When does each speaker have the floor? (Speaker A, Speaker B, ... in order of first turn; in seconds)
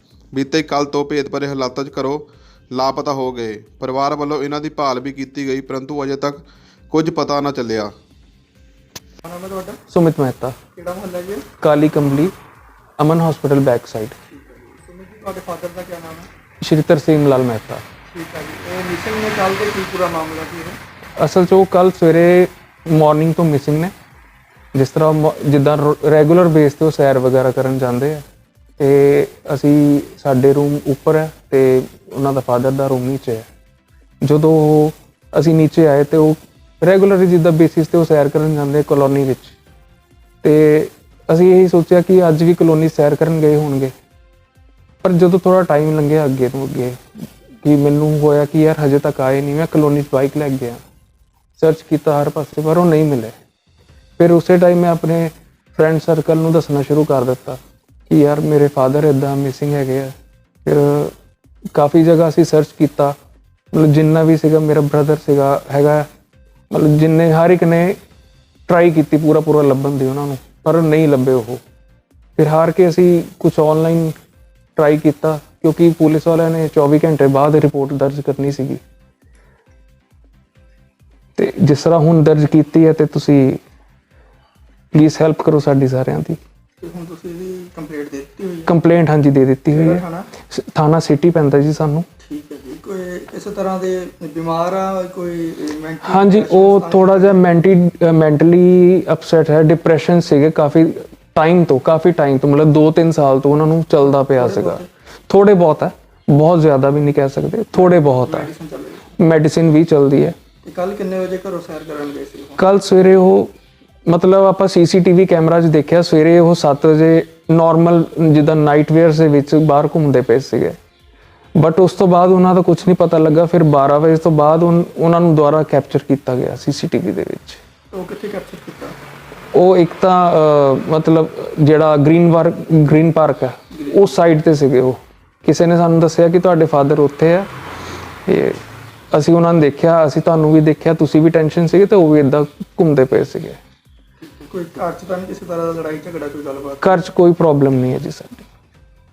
Speaker A: 0.3-7.9
Speaker B: 9.2-9.8, 10.7-11.5, 14.3-16.3, 18.1-20.8, 86.8-88.8, 89.7-90.3, 92.2-97.5, 104.0-104.9, 107.7-109.2, 110.6-112.7, 127.9-129.0, 144.2-147.1
Speaker C: 9.9-10.6, 11.6-12.3, 13.0-14.2, 16.6-17.8, 21.2-23.9, 24.7-28.2, 28.8-33.5, 34.2-39.5, 40.4-43.9, 45.0-50.8, 51.6-53.3, 54.2-60.1, 60.6-61.1, 61.7-63.1, 63.7-66.1, 66.7-68.0, 68.7-71.6, 72.4-74.2, 74.8-78.8, 81.4-83.6, 84.9-86.4, 88.7-92.1, 96.0-108.5, 109.2-110.4, 112.6-113.5, 114.1-120.8, 121.5-127.6, 129.5-137.5, 138.3-138.6, 139.1-143.6, 146.8-148.5